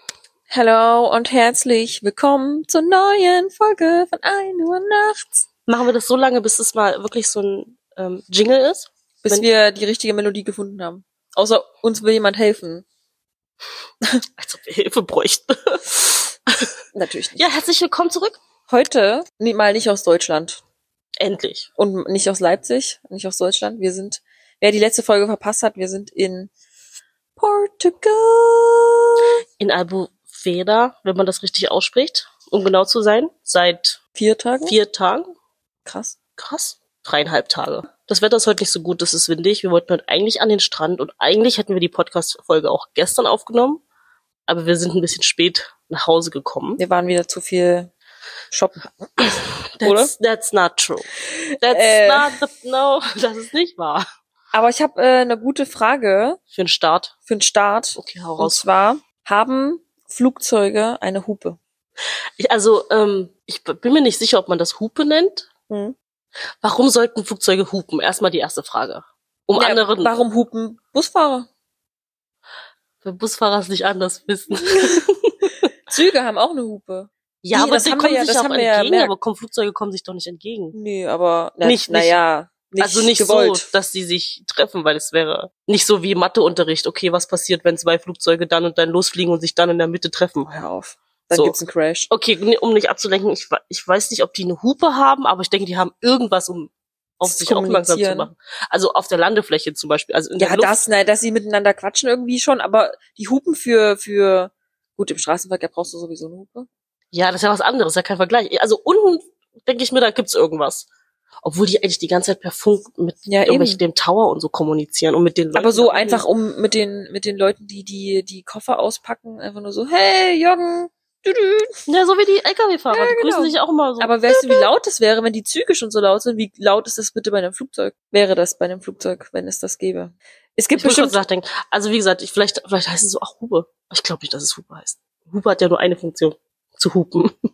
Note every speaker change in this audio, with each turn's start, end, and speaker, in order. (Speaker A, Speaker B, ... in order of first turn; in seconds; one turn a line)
Speaker A: 0.5-5.5
Speaker B: 5.7-9.5
Speaker A: 9.2-12.8
Speaker B: 14.4-16.7
Speaker A: 16.9-17.4
Speaker B: 17.4-18.4
Speaker A: 18.7-20.6
Speaker B: 21.2-21.7
Speaker A: 21.8-26.5
Speaker A: 27.4-29.4
Speaker B: 29.6-34.0
Speaker A: 34.2-34.8
Speaker B: 34.6-35.3
Speaker A: 35.9-36.2
Speaker B: 36.4-43.8
Speaker B: 44.5-46.8
Speaker A: 46.8-47.9
Speaker A: 48.5-49.1
Speaker B: 49.2-54.1
Speaker A: 49.8-50.1
Speaker A: 51.2-52.4
Speaker A: 54.5-56.4
Speaker B: 56.5-57.1
Speaker A: 57.3-61.6
Speaker B: 58.0-58.6
Speaker B: 62.4-65.5
Speaker A: 65.7-66.0
Speaker B: 66.6-70.1
Speaker A: 69.6-71.5
Speaker B: 73.0-75.7
Speaker A: 75.9-79.1
Speaker B: 77.4-80.8
Speaker A: 80.7-83.7
Speaker B: 81.6-82.2
Speaker B: 82.8-90.6
Speaker A: 90.5-92.1
Speaker B: 91.3-91.6
Speaker B: 92.1-100.8
Speaker A: 97.2-98.3
Speaker A: 100.4-106.7
Speaker B: 107.1-110.9
Speaker B: 111.4-116.2
Speaker A: 113.3-113.8
Speaker A: 115.6-121.8
Speaker B: 121.9-124.7
Speaker A: 122.9-131.2
Speaker B: 130.8-137.3